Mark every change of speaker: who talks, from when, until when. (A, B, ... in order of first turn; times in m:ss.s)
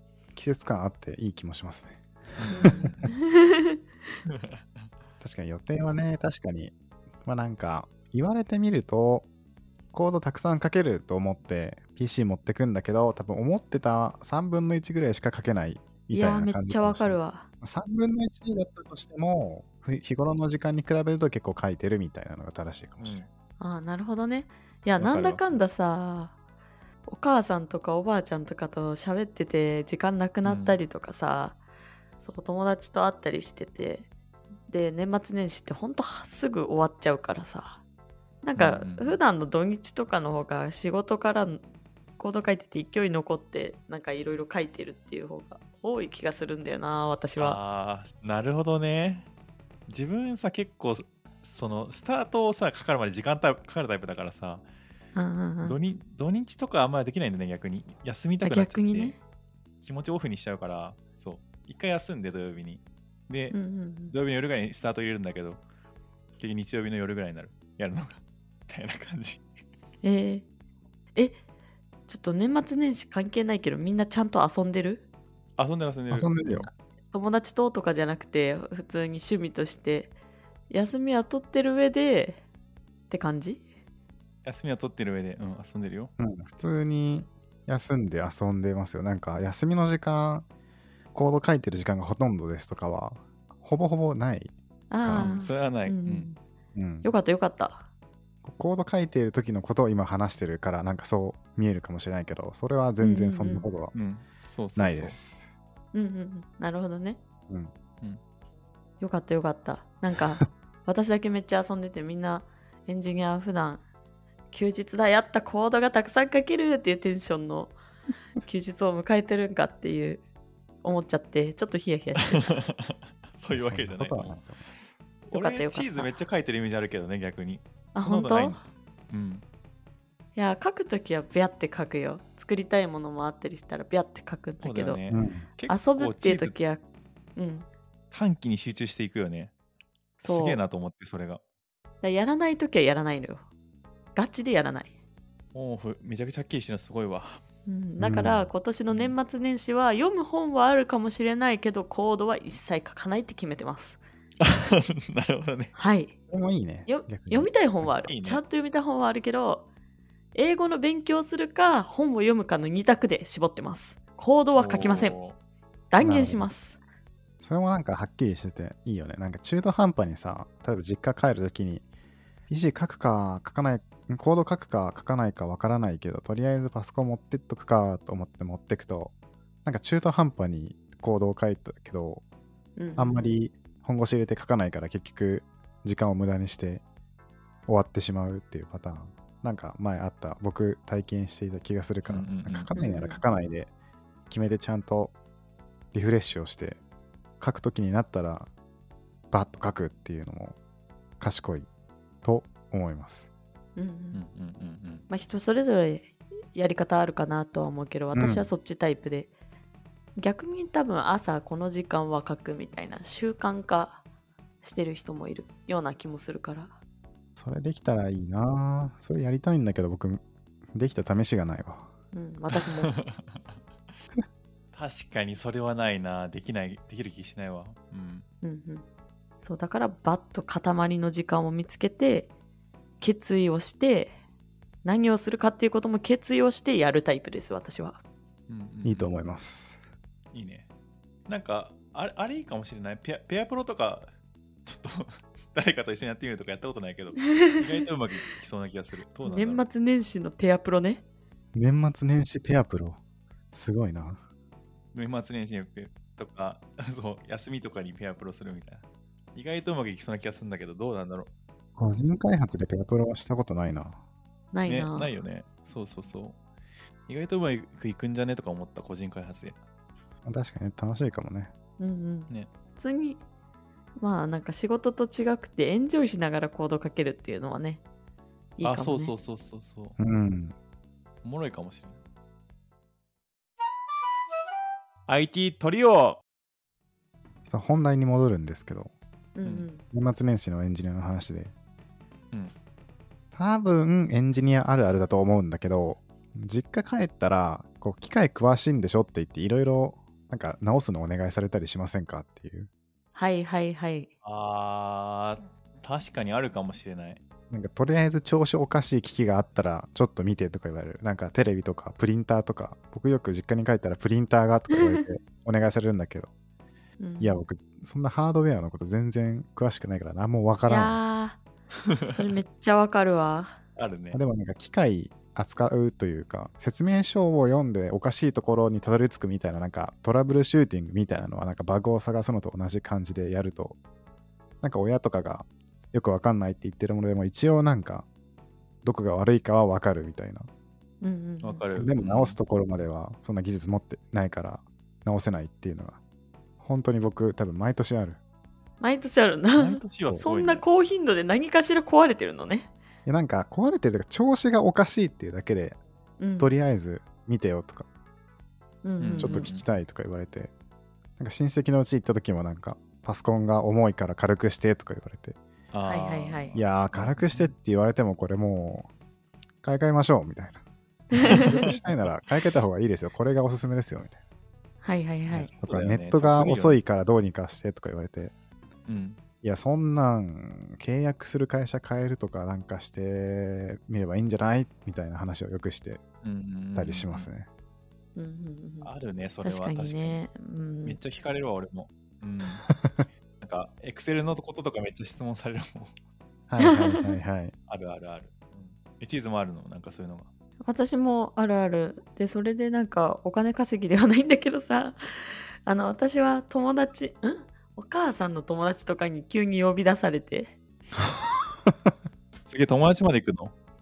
0:00.3-0:02.0 A
0:02.4-0:03.1 B
0:02.5-0:03.8 C
0:02.6-0:02.9 A
0:04.3-0:04.6 B
0:05.2-0:06.7 A
0:07.2-0:09.3 A
0:09.9-0:23.2 A
0:16.1-0:17.5 C
0:23.0-0:23.3 B
0:23.6-0:26.4 C
0:25.0-0:25.6 B
0:27.1-0:31.6 C
0:30.4-0:30.8 B
0:32.2-0:34.1 C
0:34.7-0:37.8 C
0:38.4-0:41.6 C
0:38.6-0:39.2 B
0:42.2-0:47.6 C
0:47.4-0:49.3 B
0:49.9-0:54.6 B
0:55.2-0:55.8 C
0:55.6-0:59.2 B
0:58.4-0:59.2 C
0:59.8-1:03.6 B
1:03.5-1:04.1 C
1:04.1-1:05.6 B
1:06.4-1:09.4 B
1:10.0-1:10.4 C
1:12.1-1:15.0 C
1:15.6-1:16.7 B
1:16.1-1:16.7 A
1:17.1-1:20.1 C
1:20.7-1:22.4 C
1:23.1-1:23.6 C
1:24.4-1:26.1 B
1:26.2-1:30.5 A
1:31.1-1:35.3 A
1:34.9-1:36.4 C
1:35.1-1:36.3 B
1:36.8-1:37.1 A
1:37.0-1:37.8 C
1:38.4-1:43.9 A
1:43.0-1:43.7 C
1:43.9-1:45.2 B
1:44.8-1:45.5 A
1:45.9-1:47.2 C
1:49.0-1:53.8 C
1:54.5-1:57.7 C
1:58.4-2:00.2 C
2:00.8-2:02.5 C
2:02.3-2:04.4 B
2:03.5-2:05.0 A
2:05.3-2:09.4 B
2:05.3-2:06.1 C
2:08.0-2:08.6 C
2:10.4-2:15.0 C
2:14.6-2:16.6 B
2:15.1-2:15.5 A
2:15.7-2:16.8 C
2:17.4-2:17.7 C
2:18.1-2:19.5 B
2:20.2-2:20.6 C
2:20.2-2:21.4 B
2:22.0-2:23.4 C
2:24.2-2:24.9 C
2:25.5-2:27.4 B
2:27.7-2:34.0 C
2:28.0-2:28.5 A
2:34.4-2:35.7 B
2:35.8-2:36.1 C
2:36.3-2:37.9 A
2:36.9-2:39.7 C
2:38.1-2:38.4 B
2:40.3-2:45.2 C
2:44.6-2:45.4 B
2:45.9-2:46.8 C
2:46.0-2:46.5 A
2:47.4-2:51.8 A
2:52.5-2:59.1 A
2:59.6-3:02.2 A
3:02.8-3:03.3 C
3:03.0-3:06.8 A
3:07.7-3:13.7 A
3:12.1-3:12.7 B
3:12.8-3:13.2 C
3:14.3-3:15.1 A
3:15.9-3:16.8 A
3:17.4-3:18.5 A
3:19.3-3:20.6 A
3:21.2-3:21.7 A
3:22.2-3:23.3 A
3:23.8-3:24.2 C
3:24.1-3:25.0 B
3:25.1-3:29.3 C
3:28.1-3:28.5 A
3:30.2-3:34.0 C
3:34.6-3:36.7 C
3:37.4-3:40.2 A
3:40.7-3:41.9 A
3:42.1-3:42.9 C
3:42.6-3:43.4 B
3:44.7-3:48.2 B
3:48.4-3:48.8 C
3:49.4-3:52.3 C
3:53.0-3:54.1 C
3:54.8-3:58.0 C
3:58.5-3:59.2 B
3:58.8-3:59.8 A
4:00.3-4:00.7 B
4:01.3-4:04.1 B
4:04.7-4:09.6 B
4:07.2-4:07.8 C
4:09.2-4:11.0 C
4:11.6-4:13.0 A
4:13.5-4:14.2 A
4:14.9-4:18.8 B
4:19.4-4:21.3 B
4:21.8-4:24.0 A
4:24.5-4:25.1 C
4:24.7-4:26.4 B
4:27.1-4:29.6 B
4:30.2-4:31.5 A
4:31.8-4:33.2 C
4:34.0-4:37.8 C
4:38.6-4:39.1 C
4:38.6-4:40.0 B
4:40.0-4:40.6 A
4:41.2-4:42.0 B
4:45.1-4:46.2 B
4:47.5-4:48.9 A
4:49.4-4:49.8 C
4:49.9-4:51.5 A
4:53.3-5:02.7 A
5:03.2-5:04.1 C
5:04.2-5:07.2 B
5:07.5-5:16.3 A
5:14.7-5:15.0 C
5:17.0-5:17.4 C
5:17.2-5:21.0 A
5:20.7-5:21.4 C
5:21.9-5:22.2 B
5:22.1-5:23.6 C
5:23.8-5:24.2 B
5:24.1-5:33.8 A
5:34.6-5:38.1 A
5:38.8-5:40.5 A
5:41.0-5:41.6 C
5:41.4-5:42.4 B
5:41.8-5:46.0 A
5:46.6-5:48.2 A
5:48.8-5:52.7 C
5:49.6-5:50.6 B
5:53.0-5:55.8 A
5:56.2-5:56.5 C
5:56.4-5:57.9 A
5:58.8-5:59.5 C
5:59.0-5:59.6 B
5:59.2-6:00.5 A
6:01.2-6:05.4 A
6:05.7-6:07.5 B
6:05.8-6:06.6 C
6:06.6-6:08.9 A
6:09.6-6:10.6 A
6:11.2-6:11.5 C
6:11.2-6:14.2 A
6:11.3-6:11.8 B
6:14.8-6:15.5 C
6:15.3-6:16.8 B
6:15.6-6:18.3 A
6:18.9-6:19.2 B
6:19.4-6:26.0 A
6:26.2-6:27.3 B
6:26.8-6:27.5 A
6:28.2-6:28.9 C
6:28.8-6:30.2 B
6:29.4-6:31.0 C
6:30.8-6:32.7 B
6:32.7-6:33.1 A
6:33.4-6:35.9 B
6:36.5-6:37.5 A
6:36.6-6:37.0 C
6:37.7-6:40.3 B
6:40.7-6:50.5 C
6:51.0-6:51.7 A
6:52.5-6:53.5 B